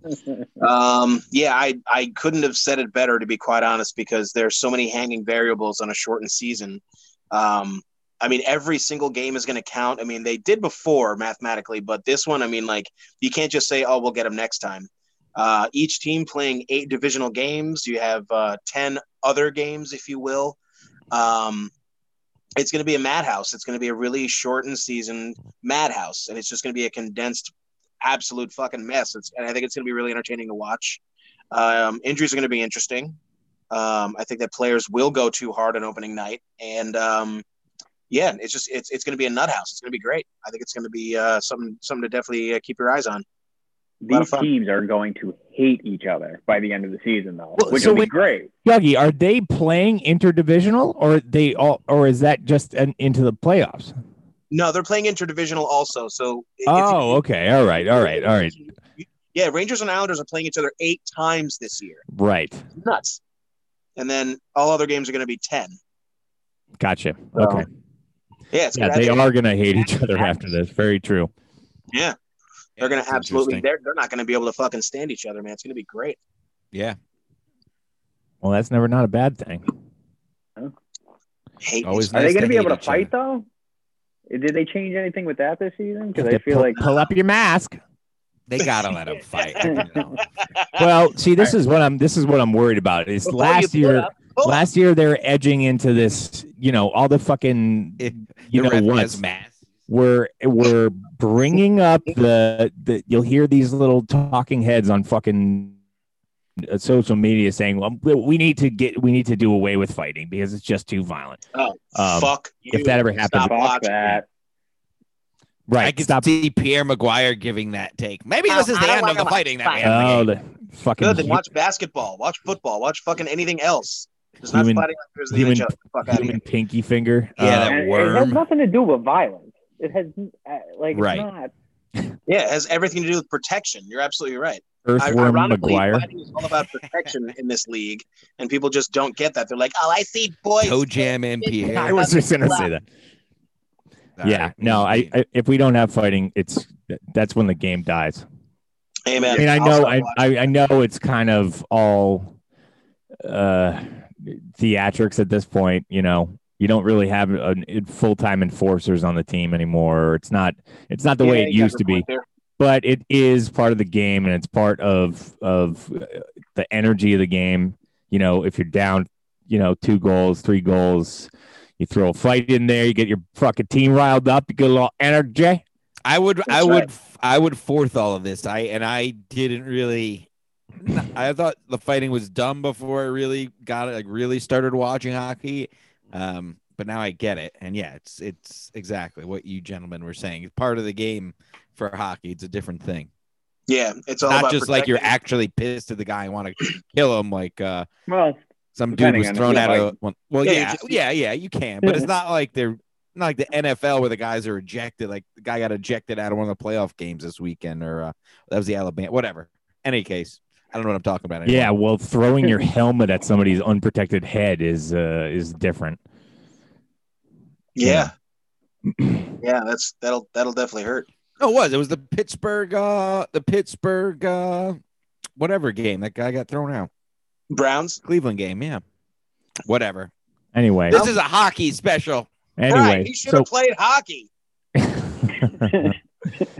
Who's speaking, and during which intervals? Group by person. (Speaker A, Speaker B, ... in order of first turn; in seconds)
Speaker A: 0.6-20.6, 21.1-21.7, 22.6-33.2, 33.7-37.4, 38.1-43.2, 44.1-44.5, 54.5-57.2, 57.8-62.0, 62.8-63.2, 64.0-65.7, 67.3-67.7, 68.5-70.4, 72.8-76.2, 81.6-82.3, 89.3-89.7, 90.5-90.8, 93.2-94.6, 111.5-114.2, 118.5-120.0, 121.0-126.4, 132.3-142.7, 149.1-150.3, 161.2-162.2, 176.5-176.9, 193.7-195.1, 199.4-199.8, 200.4-201.0, 217.8-218.1, 219.4-221.1, 227.5-228.0, 230.9-231.2, 232.7-234.3
Speaker B: 44.0-48.5, 82.1-83.5, 84.3-86.8, 89.6-90.2, 113.4-114.2, 127.6-131.5, 198.1-198.4, 198.9-199.9, 201.8-202.1
Speaker C: 47.6-48.1, 48.6-53.9, 56.7-58.6, 62.1-62.6, 66.8-67.7, 68.7-71.3, 78.4-79.7, 86.1-87.8, 90.8-99.2, 99.9-105.8, 106.6-111.4, 111.9-113.6, 115.7-116.3, 119.8-121.4, 124.5-128.4, 134.8-136.1, 141.7-142.8, 144.2-148.2, 149.3-152.3, 153.2-162.1, 162.6-175.6, 211.4-216.0, 217.8-218.1, 219.0-219.2, 230.5-231.0, 232.6-233.5, 234.8-235.9
Speaker D: 72.8-73.6, 81.8-83.1, 88.5-90.2, 98.0-99.5, 115.8-120.3, 127.4-127.8, 130.9-131.3, 140.6-142.1, 144.2-145.1, 176.1-180.3, 180.8-193.1, 194.2-197.9, 198.8-211.7, 221.4-224.8, 225.4-226.9, 228.0-228.8, 229.7-230.1, 230.9-232.3